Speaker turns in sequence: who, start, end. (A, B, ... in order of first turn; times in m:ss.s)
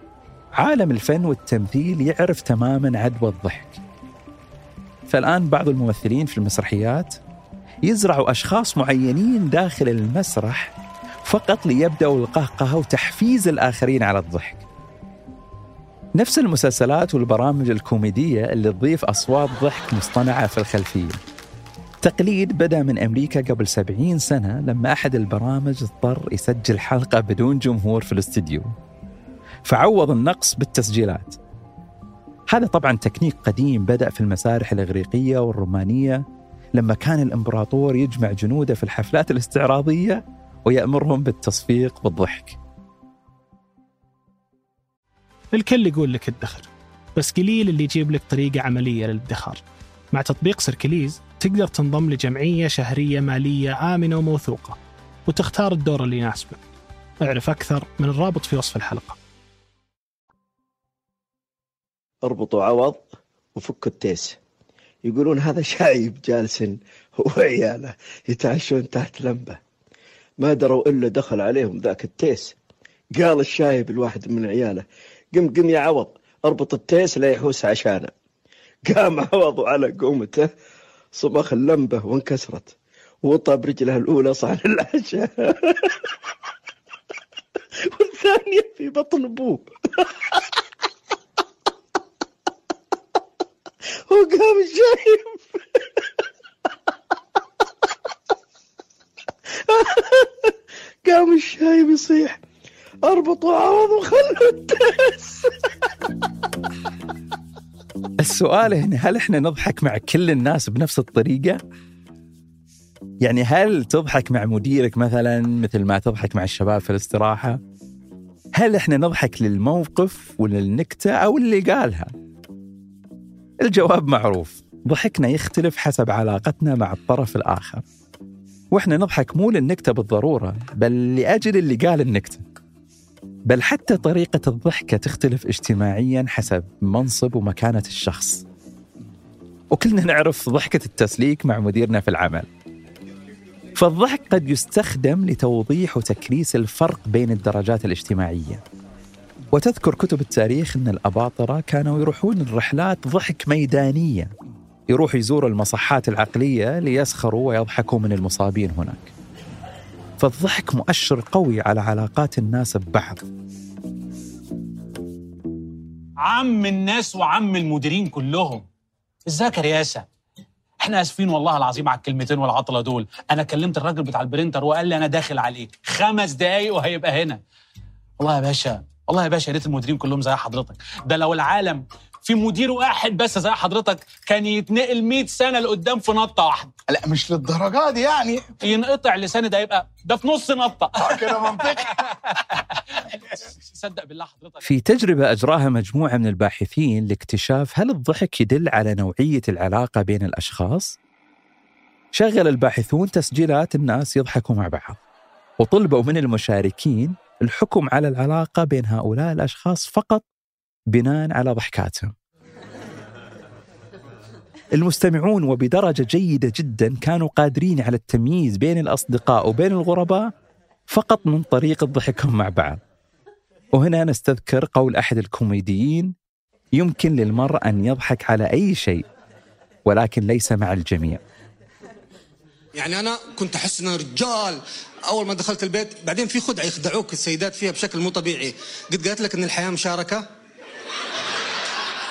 0:00.6-0:03.8 A
0:05.1-0:07.2 A
0:07.9-0:10.7 A
0:11.2-0:14.6 A
0:16.2-0:21.2 A
0:22.0-0:28.7 A
0:29.6-0:31.4 A
0:32.5-0:36.2 A
0:36.8-0:42.6 A
0:45.5-0:56.6 B
0:57.2-0:59.2 B
1:02.2-1:04.4 C
1:05.0-1:09.6 C
1:10.4-1:12.6 C
1:13.2-1:18.1 C
1:18.9-1:20.5 C
1:21.1-1:26.1 C
1:27.9-1:30.5 C
1:34.1-1:36.0 C
1:39.6-1:40.5 C
1:41.0-1:42.4 C
1:43.0-1:45.7 C
1:48.2-1:51.6 A
1:53.2-1:57.6 A
1:58.6-2:02.1 A
2:03.6-2:07.8 A
2:08.7-2:12.4 A
2:13.5-2:18.4 A
2:19.7-2:22.5 A
2:23.8-2:28.6 A
2:29.5-2:34.3 A
2:34.9-2:39.1 A
2:40.2-2:43.2 A
2:46.2-2:48.6 D
2:49.3-2:50.0 D
2:50.8-2:57.4 D
2:58.2-3:06.7 D
3:06.9-3:08.5 E
3:08.6-3:11.6 D
3:11.1-3:11.9 E
3:13.7-3:14.6 D
3:14.6-3:21.0 A
3:22.1-3:25.0 A
3:25.6-3:30.2 A
3:30.9-3:32.1 A
3:34.8-3:40.3 A
3:40.9-3:42.8 A
3:43.7-3:46.1 A
3:46.8-3:49.0 A
3:49.9-3:51.2 A
3:52.8-4:00.2 F